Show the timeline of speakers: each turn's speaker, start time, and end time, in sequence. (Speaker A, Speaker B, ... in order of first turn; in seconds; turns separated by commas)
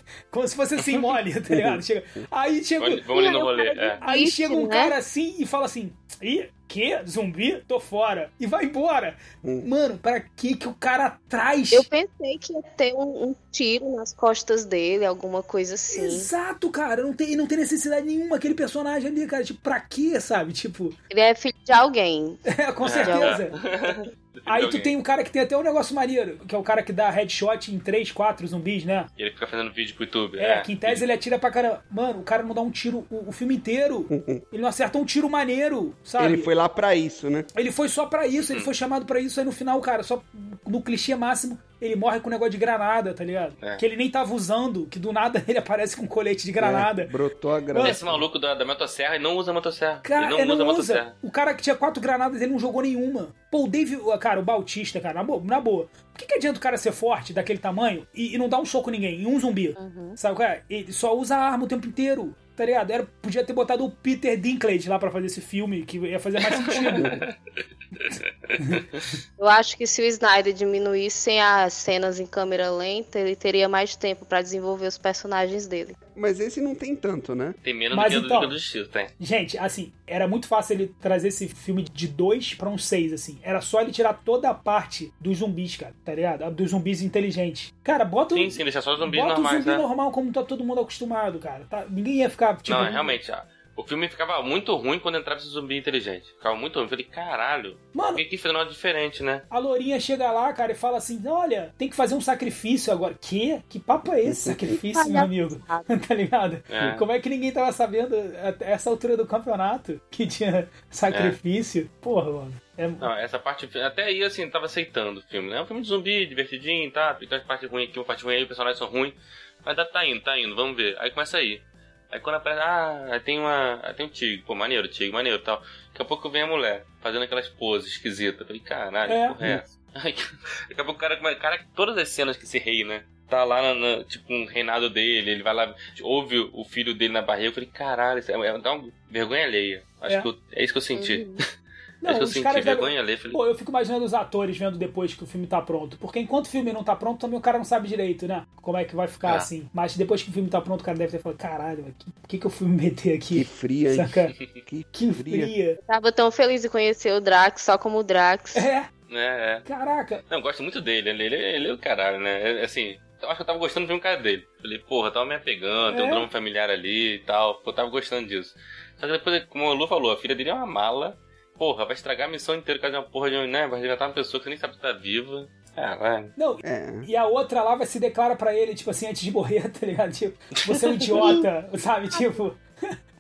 Speaker A: 0.3-3.0, Speaker B: 1.5-2.3, Speaker C: 2.8-4.0, Speaker D: 3.1-5.0, Speaker A: 4.0-11.9, Speaker D: 11.7-16.3, Speaker A: 15.9-21.0, Speaker D: 21.1-22.4, Speaker A: 22.5-23.6, Speaker C: 22.8-24.9, Speaker D: 23.0-24.1, Speaker A: 24.5-29.1, Speaker C: 29.2-31.1, Speaker A: 30.4-36.5, Speaker B: 34.1-34.4, Speaker B: 36.2-37.5, Speaker A: 37.5-47.1, Speaker B: 46.6-48.2, Speaker A: 47.7-48.0, Speaker C: 47.8-51.1, Speaker A: 50.0-67.2, Speaker D: 59.8-60.2, Speaker C: 66.5-67.3, Speaker C: 68.0-69.1, Speaker D: 69.4-76.0, Speaker B: 76.2-77.6, Speaker C: 77.6-79.1, Speaker A: 77.9-78.5, Speaker A: 79.2-93.2, Speaker C: 88.3-89.9, Speaker C: 92.7-99.4, Speaker A: 97.9-98.2, Speaker A: 99.5-113.1, Speaker B: 104.2-104.7, Speaker D: 104.8-105.9, Speaker C: 106.7-107.0, Speaker C: 111.1-111.4, Speaker C: 113.0-141.4, Speaker A: 129.1-129.5, Speaker D: 140.9-141.4, Speaker A: 142.0-154.3, Speaker C: 142.1-143.4, Speaker B: 153.3-155.5, Speaker A: 154.9-155.8, Speaker D: 155.8-158.7, Speaker A: 158.6-158.9, Speaker C: 159.1-159.7, Speaker A: 159.7-160.2, Speaker C: 160.3-176.3, Speaker A: 165.9-166.3, Speaker A: 176.4-182.9, Speaker B: 176.6-177.1, Speaker C: 180.7-181.2, Speaker D: 181.2-181.5, Speaker D: 182.1-182.4